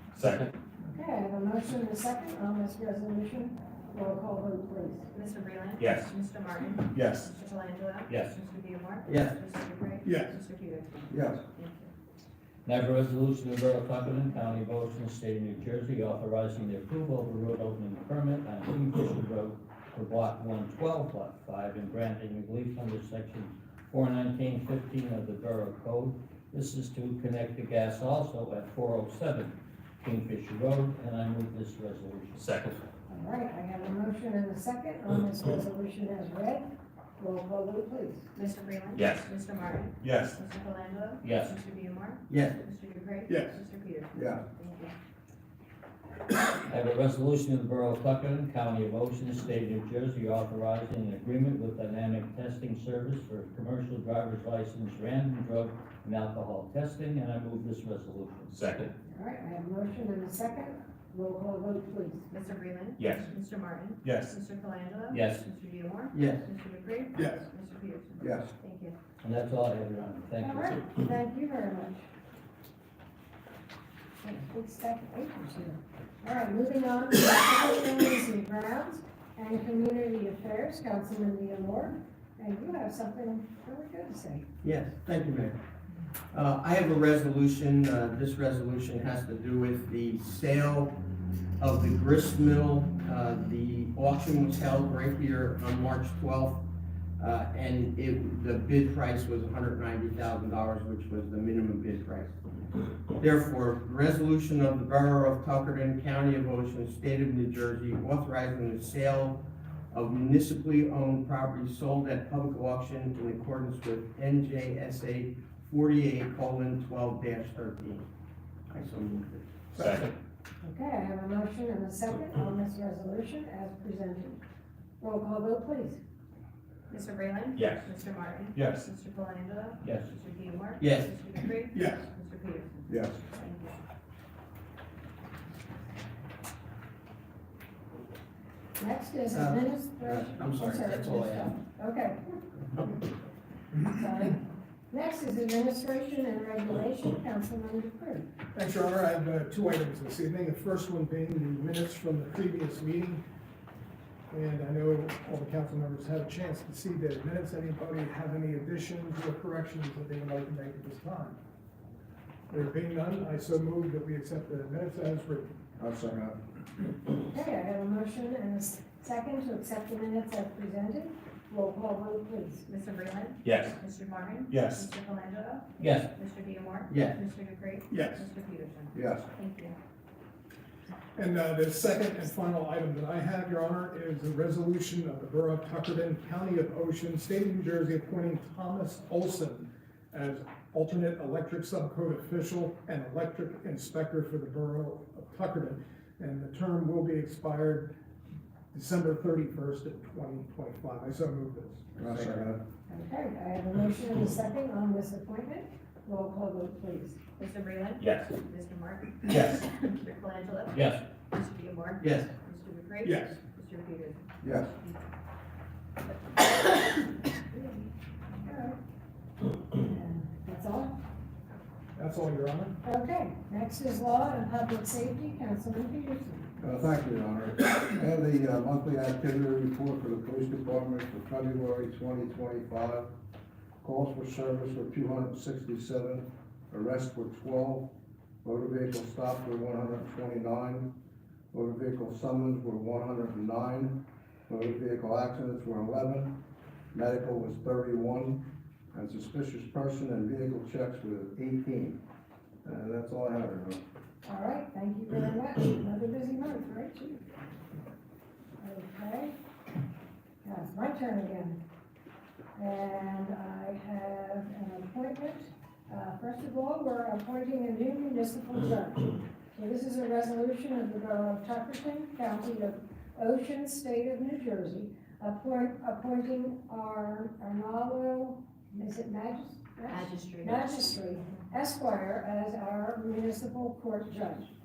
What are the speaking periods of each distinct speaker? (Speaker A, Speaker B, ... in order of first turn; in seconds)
Speaker A: 0.1-0.5, 5.8-6.1, 6.9-7.3, 32.4-32.8, 39.0-39.3, 40.1-40.3, 58.5-58.9, 119.8-120.1, 127.6-127.9, 128.5-128.9, 173.4-173.8, 208.0-208.3, 209.3-209.6
Speaker B: 0.8-5.1, 33.1-38.3, 59.0-62.3, 70.4-72.1, 74.2-84.5, 120.6-124.4, 125.0-126.0, 138.8-142.4, 143.8-148.3, 167.3-172.7, 202.9-207.2, 218.4-218.8, 219.8-220.9, 222.8-226.5, 254.2-257.4, 258.6-259.3, 260.4-261.6, 262.5-284.5
Speaker C: 5.1-11.9, 38.3-45.0, 62.3-69.0, 126.9-133.8, 172.7-179.8, 207.4-214.9, 216.3-217.9, 279.9-280.8
Speaker D: 8.1-8.3, 12.7-32.4, 41.2-41.5, 46.7-58.5, 65.1-65.4, 69.2-70.8, 129.8-130.1, 175.8-176.1, 210.7-211.0
Speaker E: 9.1-9.4, 42.3-42.6, 66.1-66.5, 84.6-85.5, 86.3-90.9, 91.6-96.6, 97.2-102.3, 103.2-109.4, 109.9-118.0, 118.7-119.8, 130.8-131.1, 139.3-141.6, 176.9-177.2, 201.9-202.4, 212.0-212.3
Speaker F: 10.0-10.3, 43.3-43.6, 131.7-132.0, 148.5-153.2, 154.3-161.4, 162.5-165.5, 174.6-174.8, 177.9-178.2, 181.2-197.9, 198.7-201.8, 213.0-213.3, 221.9-222.8
Speaker G: 11.1-11.4, 44.1-44.4, 68.2-68.5, 132.9-133.2, 165.8-166.4, 178.9-179.3, 202.0-202.6, 214.4-214.7, 226.6-233.1, 233.8-237.9, 238.4-240.9, 241.5-246.3, 246.9-252.0, 252.6-253.8